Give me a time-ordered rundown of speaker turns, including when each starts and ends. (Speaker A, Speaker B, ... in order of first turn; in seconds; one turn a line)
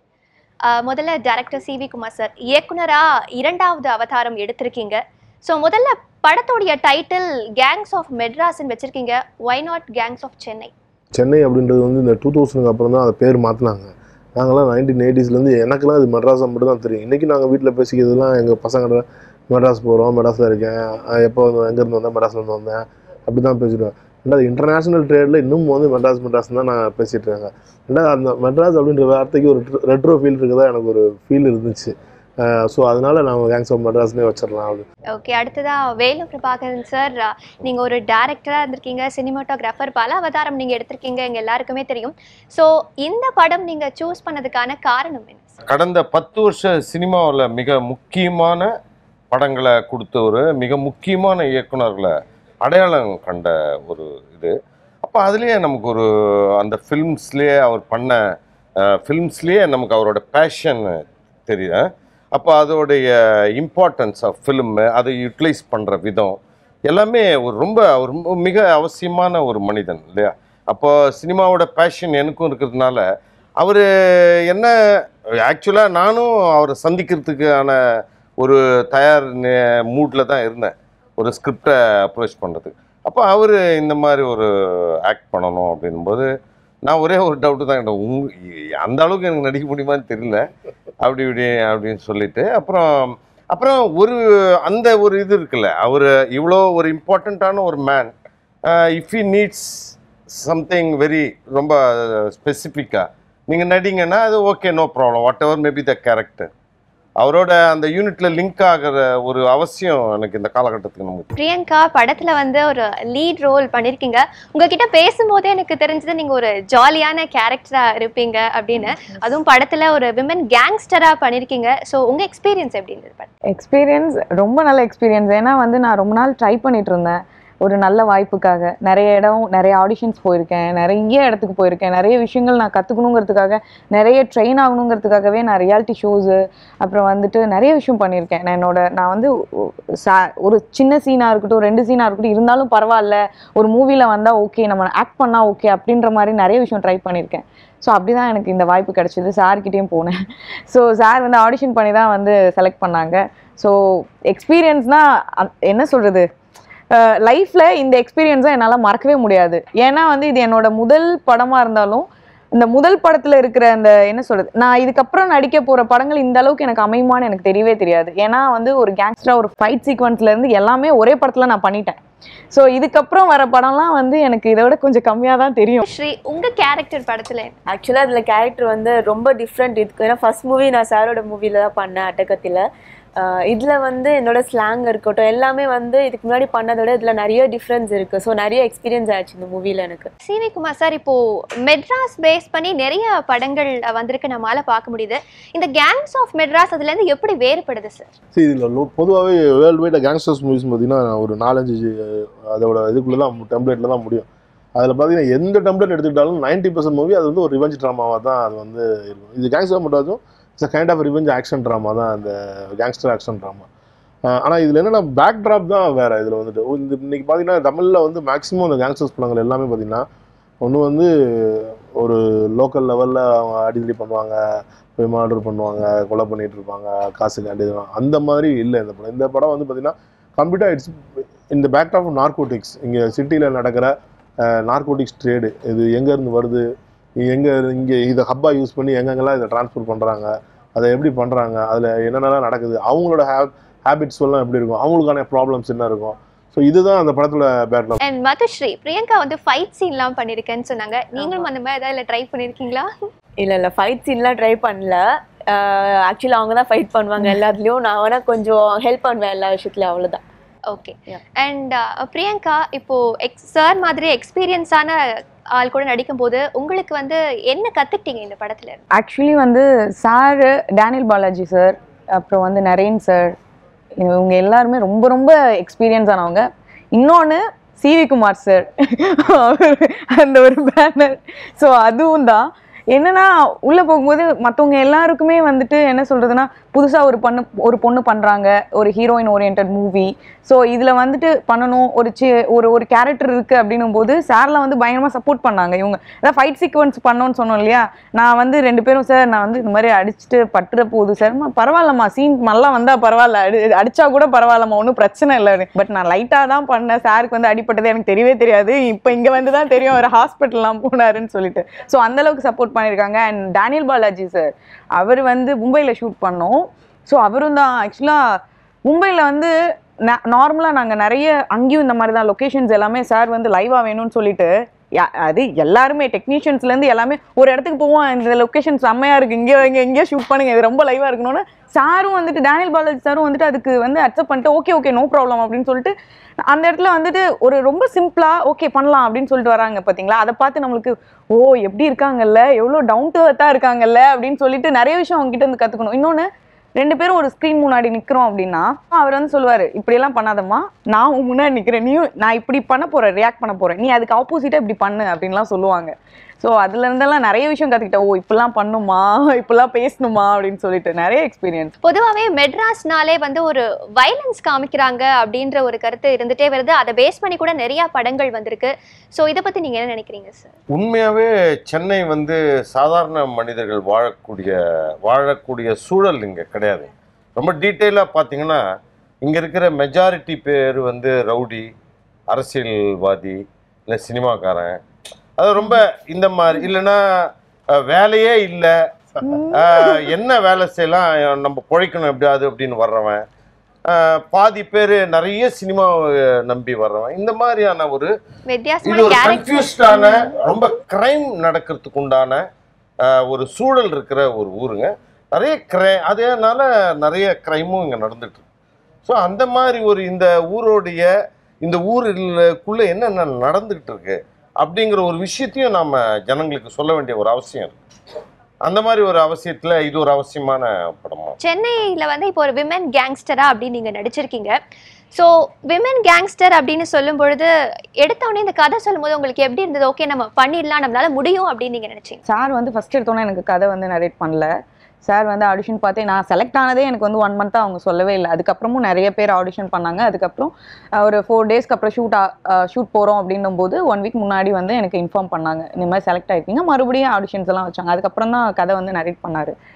Speaker A: 0.7-10.7
Speaker B: 11.2-31.9
Speaker B: 32.4-34.8
Speaker A: 35.1-45.5
Speaker C: 45.7-48.7
Speaker C: 49.3-52.1
Speaker C: 52.6-54.5
Speaker C: 55.0-56.0
Speaker C: 56.6-58.2
Speaker C: 59.0-61.8
Speaker C: 62.3-66.4
Speaker C: 66.9-73.0
Speaker C: 73.6-73.8
Speaker C: 75.4-77.8
Speaker C: 78.4-84.5
Speaker C: 85.1-86.3
Speaker C: 86.9-88.3
Speaker C: 88.8-90.4
Speaker C: 91.0-98.1
Speaker C: 98.7-106.5
Speaker C: 107.2-111.3
Speaker A: 111.4-123.3
Speaker D: 123.5-150.1
Speaker D: 150.7-156.2
Speaker D: 156.9-172.0
Speaker D: 172.5-175.8
Speaker A: 175.8-177.5
Speaker E: 177.7-182.6
Speaker E: 183.2-190.1
Speaker A: 190.3-198.1
Speaker B: 198.3-213.7
Speaker B: 214.3-220.0
Speaker B: 220.6-224.4
Speaker B: 225.0-230.9
Speaker B: 231.5-233.9
Speaker B: 234.4-236.6
Speaker B: 237.2-248.0
Speaker A: 248.0-252.9
Speaker E: 253.4-260.2
Speaker A: 260.7-265.0
Speaker A: 265.6-268.8
Speaker D: 268.9-273.4
Speaker D: 274.0-318.2
Speaker D: 318.9-319.5
Speaker D: 320.1-335.9
Speaker D: 336.5-346.3
Speaker D: 346.8-361.7
Speaker A: 361.8-370.5
Speaker C: 370.7-378.6
Speaker C: 379.2-381.7
Speaker C: 382.3-384.8
Speaker C: 385.4-387.0
Speaker C: 387.7-388.7
Speaker D: 389.2-390.1
Speaker C: 389.5-393.2
Speaker C: 393.9-398.1
Speaker A: 398.5-400.4
Speaker C: 398.8-402.4
Speaker C: 403.1-408.4
Speaker C: 409.1-411.1
Speaker C: 411.6-417.8
Speaker C: 418.6-421.4
Speaker A: 421.4-424.6
Speaker A: 425.1-427.5
Speaker A: 428.0-432.2
Speaker D: 432.3-434.5
Speaker D: 435.1-449.6